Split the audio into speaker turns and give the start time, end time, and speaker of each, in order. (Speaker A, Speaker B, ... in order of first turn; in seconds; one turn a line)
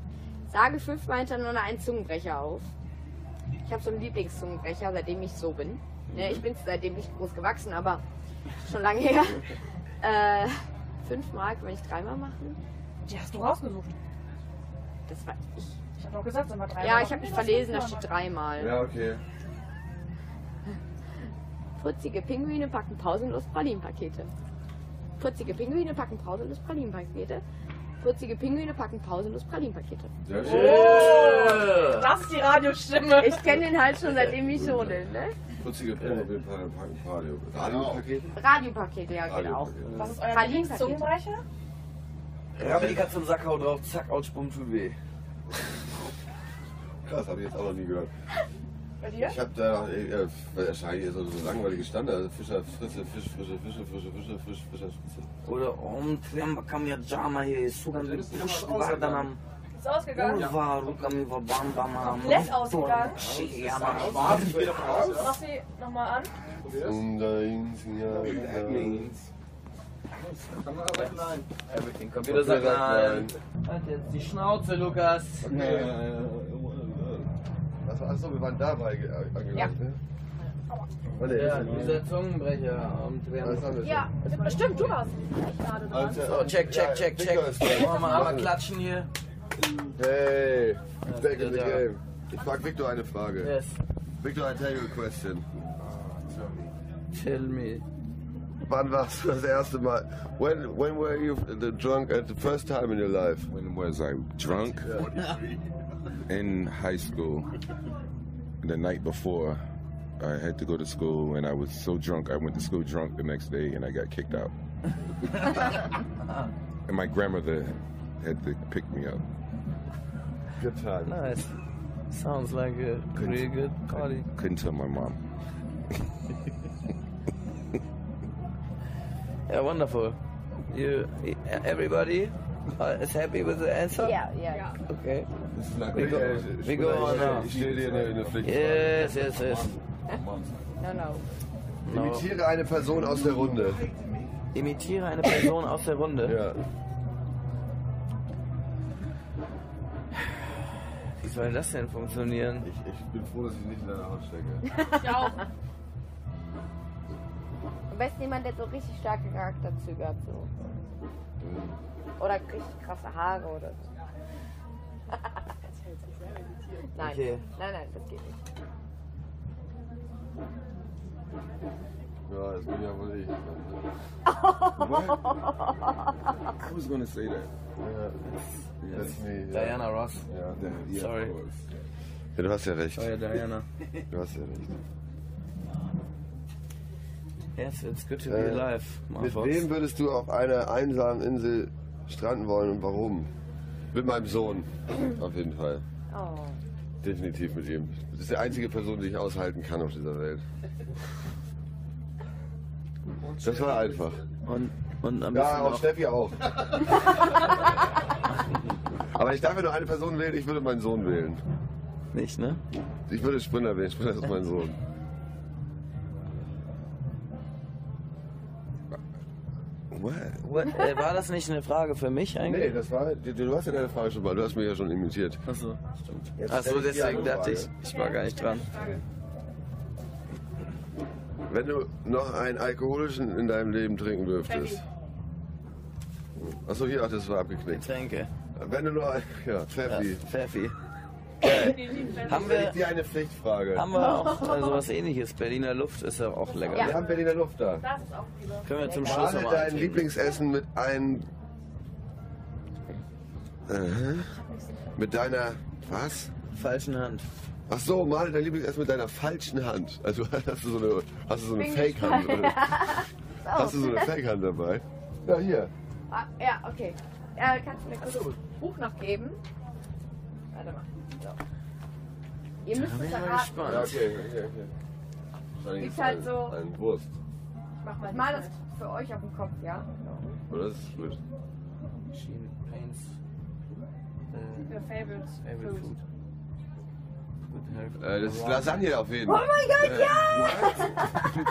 Speaker A: 0.5-2.7
Speaker A: 3.6-8.0
Speaker B: 6.1-6.4
Speaker A: 8.6-9.5
Speaker A: 10.0-12.6
Speaker C: 13.1-13.9
Speaker A: 15.1-15.8
Speaker C: 16.0-18.1
Speaker A: 16.8-18.8
Speaker D: 18.6-19.2
Speaker A: 21.8-24.3
Speaker A: 25.2-27.4
Speaker A: 28.0-30.1
Speaker D: 30.2-31.4
Speaker B: 30.4-32.1
Speaker C: 30.4-33.6
Speaker A: 33.2-35.4
Speaker D: 34.5-35.0
Speaker D: 35.6-38.4
Speaker E: 37.5-38.3
Speaker A: 38.3-41.1
Speaker D: 39.2-40.1
Speaker C: 39.9-41.4
Speaker B: 42.6-45.0
Speaker D: 42.6-43.1
Speaker D: 47.1-48.1
Speaker C: 49.0-49.4
Speaker D: 49.2-55.3
Speaker B: 55.5-59.4
Speaker E: 58.0-59.2
Speaker C: 59.8-60.5
Speaker B: 60.1-64.8
Speaker C: 62.0-63.3
Speaker E: 63.1-65.4
Speaker D: 64.2-64.8
Speaker C: 64.8-66.3
Speaker E: 66.6-67.0
Speaker D: 66.8-69.1
Speaker E: 68.1-69.3
Speaker E: 70.2-71.4
Speaker B: 70.9-75.9
Speaker D: 72.2-73.3
Speaker D: 75.4-76.0
Speaker E: 75.5-77.3
Speaker D: 77.8-80.0
Speaker D: 81.2-82.0
Speaker B: 81.2-83.9
Speaker E: 81.6-81.9
Speaker D: 83.4-84.1
Speaker A: 83.8-85.0
Speaker C: 84.2-86.5
Speaker D: 85.9-88.5
Speaker B: 86.2-89.1
Speaker D: 90.0-93.5
Speaker B: 91.0-91.9
Speaker B: 93.4-93.8
Speaker D: 94.2-95.5
Speaker E: 95.8-96.8
Speaker B: 97.1-97.8
Speaker D: 98.7-103.5
Speaker E: 103.5-105.6
Speaker D: 104.8-105.1
Speaker E: 106.2-107.5
Speaker E: 108.6-109.6
Speaker E: 110.2-114.5
Speaker E: 116.9-119.2
Speaker D: 120.6-121.3
Speaker B: 121.1-121.5
Speaker B: 122.1-124.3
Speaker E: 123.2-125.2
Speaker B: 129.5-134.2
Speaker A: 134.0-134.8
Speaker C: 134.5-134.8
Speaker B: 134.8-135.3
Speaker E: 135.5-140.8
Speaker D: 135.6-139.2
Speaker B: 135.9-137.6
Speaker B: 138.4-139.8
Speaker A: 140.8-141.2
Speaker B: 141.9-142.3
Speaker D: 141.9-143.8
Speaker E: 143.1-144.4
Speaker B: 144.5-146.4
Speaker D: 146.2-146.6
Speaker B: 151.2-152.7
Speaker D: 152.6-154.7
Speaker A: 154.9-155.2
Speaker C: 155.0-155.4
Speaker A: 157.9-160.5
Speaker D: 161.4-161.8
Speaker A: 162.2-163.9
Speaker A: 165.1-165.4
Speaker C: 165.9-166.6
Speaker A: 166.9-168.4
Speaker B: 167.0-167.4
Speaker D: 172.3-173.8
Speaker A: 174.3-176.3
Speaker E: 174.8-175.4
Speaker E: 176.6-177.5
Speaker D: 177.8-178.2
Speaker B: 178.8-180.3
Speaker D: 178.9-180.6
Speaker E: 180.6-181.7
Speaker B: 180.9-181.4
Speaker D: 182.4-183.2
Speaker B: 182.9-184.0
Speaker D: 184.1-184.7
Speaker B: 187.6-189.7
Speaker D: 188.3-193.3
Speaker D: 193.9-195.8
Speaker A: 196.1-196.6
Speaker D: 197.0-200.4
Speaker E: 203.3-203.9
Speaker D: 203.4-204.2
Speaker B: 204.4-206.0
Speaker D: 205.3-207.6
Speaker D: 209.1-211.4
Speaker B: 212.1-212.6
Speaker D: 213.1-214.8
Speaker E: 219.9-220.5
Speaker B: 220.4-222.8
Speaker D: 222.4-225.4
Speaker B: 225.4-228.8
Speaker D: 226.3-227.7
Speaker E: 226.9-227.3
Speaker C: 227.8-229.0
Speaker D: 231.5-234.8
Speaker C: 234.5-234.8
Speaker D: 236.4-237.9
Speaker B: 237.7-238.3
Speaker D: 238.6-240.2
Speaker B: 239.9-240.8
Speaker D: 241.4-243.9
Speaker C: 241.4-242.7
Speaker B: 241.4-242.8
Speaker B: 243.7-247.0
Speaker A: 244.0-244.8
Speaker C: 246.5-248.7
Speaker D: 246.7-247.9
Speaker B: 248.7-250.2
Speaker A: 248.8-249.3
Speaker D: 249.0-251.3
Speaker D: 253.7-254.4
Speaker D: 255.0-256.3
Speaker B: 256.5-257.3
Speaker D: 257.7-265.7
Speaker A: 261.6-264.1
Speaker A: 266.1-269.4
Speaker B: 268.0-268.4
Speaker A: 270.5-271.4
Speaker A: 272.6-273.9
Speaker B: 272.7-274.1
Speaker D: 273.6-274.7
Speaker D: 275.6-277.1
Speaker A: 275.8-276.6
Speaker C: 277.8-278.6
Speaker A: 278.0-280.1
Speaker D: 280.5-281.2
Speaker B: 282.1-283.2
Speaker B: 284.3-286.0
Speaker C: 284.6-286.0
Speaker B: 287.5-288.9
Speaker D: 288.0-290.1
Speaker A: 289.3-291.2
Speaker E: 289.8-291.1